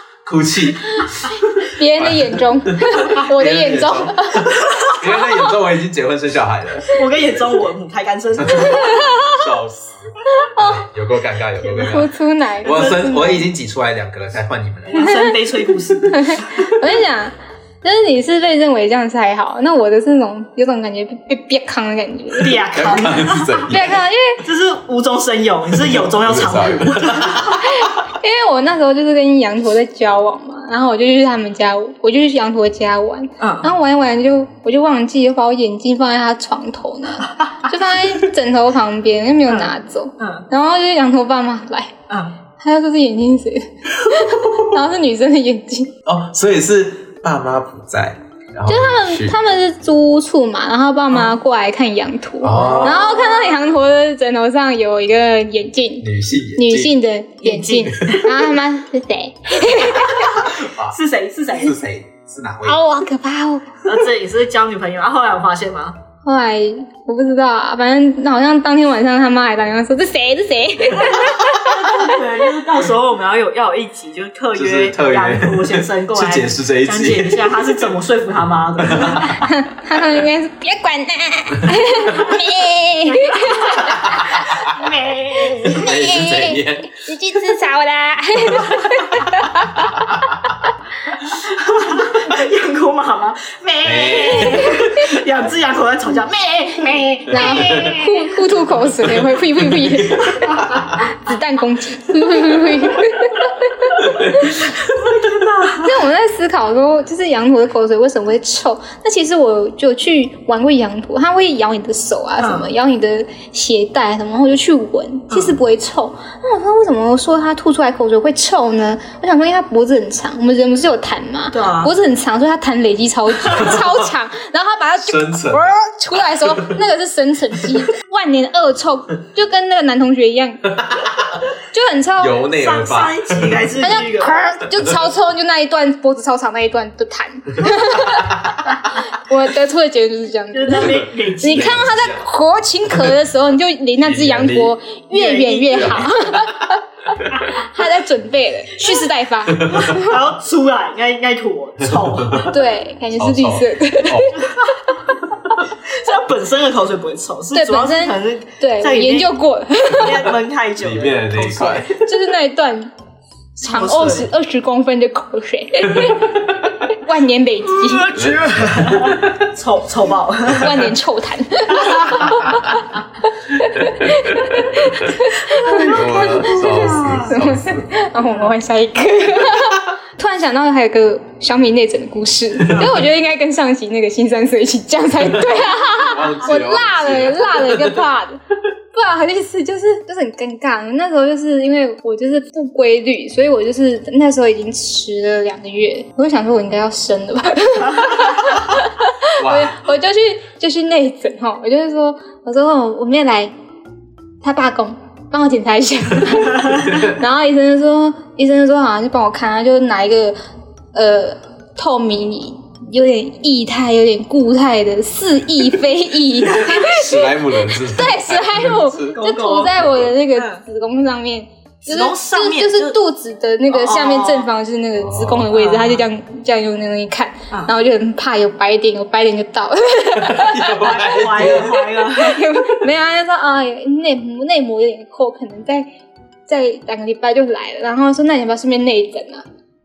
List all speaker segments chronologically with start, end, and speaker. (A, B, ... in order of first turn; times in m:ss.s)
0:00.2-0:01.4 A
0:01.6-0:04.5 B
0:02.0-0:07.0 A
0:04.6-0:05.0 C
0:06.9-0:09.0 C
0:08.4-0:12.1 A
0:08.6-0:09.4 B
0:10.3-0:10.8 B
0:11.7-0:13.4 B
0:12.6-0:15.2 A
0:12.6-0:13.0 C
0:14.9-0:16.5 C
0:16.1-0:22.6 B
0:22.4-0:23.7 C
0:22.7-0:24.0 A
0:23.6-0:24.4 B
0:24.4-0:27.6 C
0:25.7-0:27.6 A
0:27.6-0:41.9 B
0:33.4-0:33.7 C
0:39.5-0:40.5 C
0:42.1-0:42.3 C
0:42.6-0:45.9 B
0:44.1-0:44.6 A
0:46.0-0:49.4 A
0:48.7-1:00.4 B
0:51.1-0:51.4 C
0:52.4-0:53.2 A
0:52.5-0:53.4 C
0:56.0-0:56.9 A
0:57.4-0:58.3 C
0:58.0-0:58.2 A
1:00.0-1:01.8 C
1:00.2-1:01.0 A
1:01.5-1:02.8 A
1:02.6-1:03.7 B
1:03.8-1:06.0 C
1:06.2-1:12.2 B
1:11.0-1:19.4 C
1:14.5-1:17.8 A
1:18.8-1:19.4 A
1:19.3-1:24.5 B
1:23.1-1:25.9 C
1:23.9-1:24.7 A
1:25.6-1:30.1 B
1:25.6-1:26.9 A
1:29.9-1:30.2 A
1:31.4-1:38.3 C
1:33.8-1:34.9 A
1:37.3-1:44.7 B
1:37.3-1:38.0 A
1:39.0-1:40.9 A
1:44.0-1:44.8 A
1:44.9-1:46.0 C
1:45.8-2:10.8 B
1:52.4-1:52.7 C
1:55.3-1:55.6 C
2:01.5-2:01.9 C
2:03.5-2:04.0 A
2:05.0-2:05.7 A
2:06.3-2:06.7 A
2:10.7-2:11.4 A
2:11.7-2:12.4 B
2:12.2-2:13.6 A
2:12.5-2:14.3 C
2:13.8-2:26.8 B
2:17.8-2:18.6 A
2:20.5-2:21.9 C
2:20.8-2:22.2 A
2:24.0-2:24.7 A
2:25.1-2:26.0 C
2:25.7-2:26.5 A
2:27.4-2:30.1 B
2:29.5-2:29.9 A
2:29.7-2:32.5 C
2:31.8-2:32.5 A
2:32.5-2:34.6 B
2:33.2-2:34.4 A
2:35.8-2:39.3 C
2:37.5-2:40.3 B
2:39.9-2:41.9 C
2:40.8-2:42.0 A
2:42.0-2:42.9 B
2:43.6-2:46.4 B
2:43.6-2:44.3 C
2:46.9-2:48.1 B
2:47.7-2:50.9 C
2:48.1-2:49.4 A
2:50.5-2:53.0 B
2:51.8-2:52.2 C
2:53.5-3:08.4 B
2:53.8-2:55.1 A
2:55.6-2:57.4 C
2:55.8-2:57.9 A
3:05.5-3:08.0 A
3:08.9-3:23.5 B
3:19.4-3:19.8 A
3:24.4-3:30.4 B
3:26.8-3:27.1 A
3:30.9-3:50.9 B
3:36.6-3:39.2 A
3:39.1-3:39.8 C
3:39.8-3:40.1 A
3:40.3-3:40.6 C
3:41.8-3:43.0 C
3:43.7-3:44.5 C
3:45.0-3:45.5 A
3:45.5-3:46.0 C
3:50.2-3:51.9 A
3:50.8-3:52.4 C
3:51.8-3:55.9 B
3:56.5-3:59.4 B